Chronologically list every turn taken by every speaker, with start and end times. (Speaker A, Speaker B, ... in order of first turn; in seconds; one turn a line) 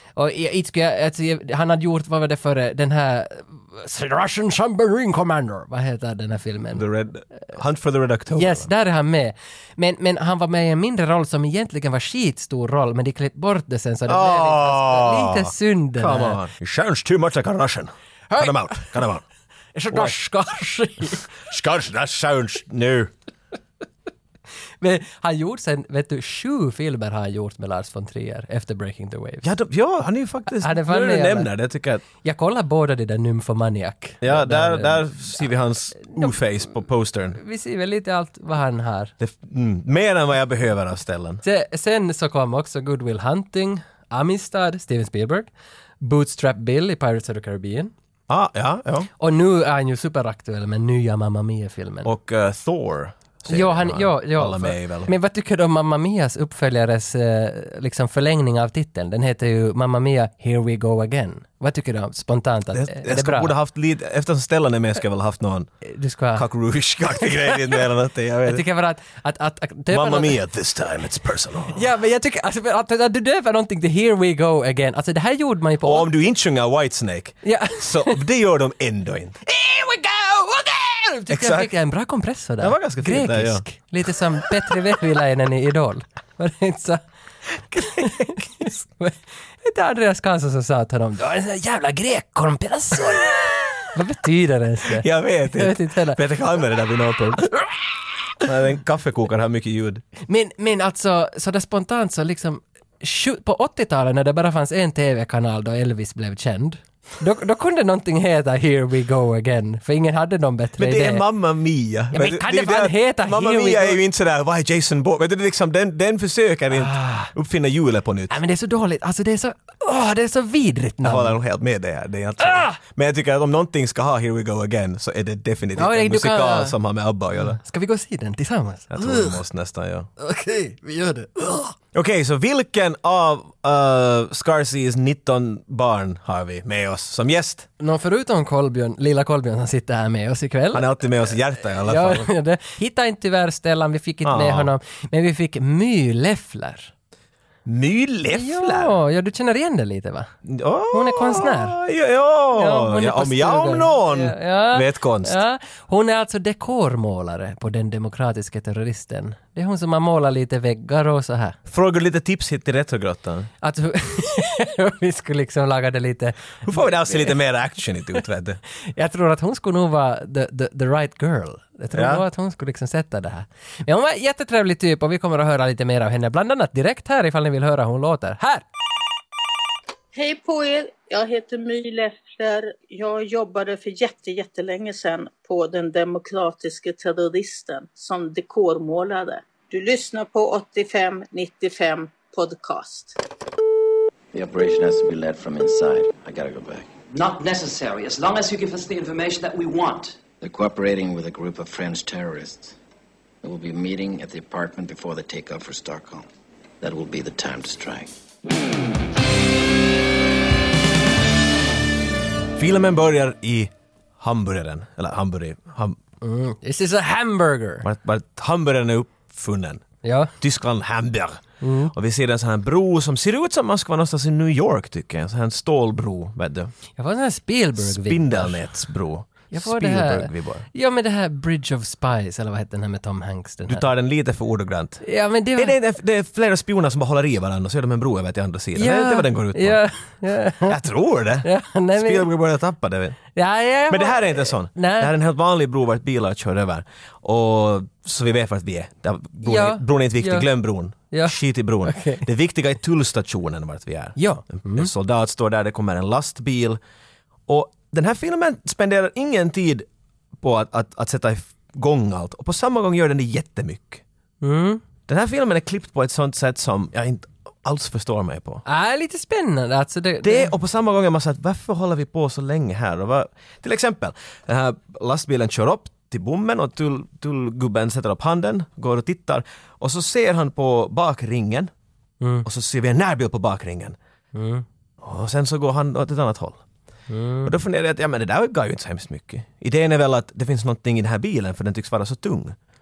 Speaker A: 0.1-6.8
Speaker B: 6.8-8.7
Speaker A: 8.3-16.4
Speaker B: 14.1-19.2
Speaker A: 18.3-19.0
Speaker A: 19.7-21.3
Speaker B: 21.5-23.1
Speaker A: 24.8-29.5
Speaker B: 29.4-32.0
Speaker A: 30.5-31.5
Speaker A: 32.2-35.5
Speaker B: 34.2-37.4
Speaker A: 36.0-36.4
Speaker A: 37.4-39.1
Speaker B: 39.2-41.4
Speaker A: 41.4-45.5
Speaker A: 46.0-47.9
Speaker B: 48.3-49.1
Speaker A: 49.2-52.1
Speaker B: 52.0-55.1
Speaker A: 53.5-63.5
Speaker B: 62.7-65.7
Speaker A: 65.8-66.4
Speaker B: 66.3-68.6
Speaker A: 67.1-67.9
Speaker A: 68.5-70.4
Speaker B: 69.9-71.8
Speaker A: 71.7-76.1
Speaker B: 75.8-79.4
Speaker A: 77.4-78.2
Speaker A: 79.4-87.0
Speaker B: 81.3-81.7
Speaker B: 82.6-83.6
Speaker A: 87.7-96.2
Speaker B: 87.8-88.4
Speaker B: 94.9-97.5
Speaker B: 98.4-100.0
Speaker A: 100.3-111.2
Speaker B: 110.8-118.3
Speaker A: 112.1-114.0
Speaker A: 116.7-117.3
Speaker A: 118.3-121.4
Speaker B: 121.0-127.6
Speaker A: 122.4-122.8
Speaker A: 125.8-126.8
Speaker A: 127.4-129.4
Speaker B: 128.9-130.1
Speaker A: 130.2-131.8
Speaker B: 131.9-137.7
Speaker A: 137.8-146.9
Speaker B: 140.7-142.3
Speaker B: 144.2-144.7
Speaker B: 147.7-148.9
Speaker A: 148.3-150.3
Speaker B: 150.4-155.4
Speaker A: 150.9-151.8
Speaker A: 152.5-161.6
Speaker B: 161.7-163.5
Speaker A: 163.6-167.3
Speaker B: 166.6-168.6
Speaker A: 168.9-178.6
Speaker B: 171.9-172.2
Speaker C: 180.1-193.2
Speaker D: 194.3-196.9
Speaker E: 197.1-200.2
Speaker D: 200.4-202.8
Speaker D: 203.4-206.3
Speaker D: 206.8-208.1
Speaker B: 212.6-216.0
Speaker A: 216.2-217.8
Speaker B: 217.8-219.8
Speaker A: 220.0-220.3
Speaker B: 220.4-226.7
Speaker A: 221.6-221.9
Speaker A: 227.0-228.7
Speaker B: 227.8-230.7
Speaker A: 229.5-233.8
Speaker B: 233.7-235.0
Speaker A: 235.0-235.8
Speaker B: 235.6-239.8
Speaker A: 238.8-240.8
Speaker B: 240.7-243.2
Speaker A: 241.4-242.3
Speaker A: 243.3-245.1
Speaker B: 243.9-256.8
Speaker A: 249.4-250.5
Speaker A: 251.1-252.2
Speaker A: 254.2-254.9
Speaker B: 257.5-259.9
Speaker B: 260.4-264.0
Speaker A: 264.4-264.8
Speaker B: 265.1-268.6
Speaker A: 268.6-270.5
Speaker B: 270.2-281.7
Speaker A: 282.2-282.5
Speaker B: 282.4-284.0
Speaker A: 284.3-284.6
Speaker B: 285.0-286.6
Speaker A: 287.1-287.5
Speaker B: 287.4-292.6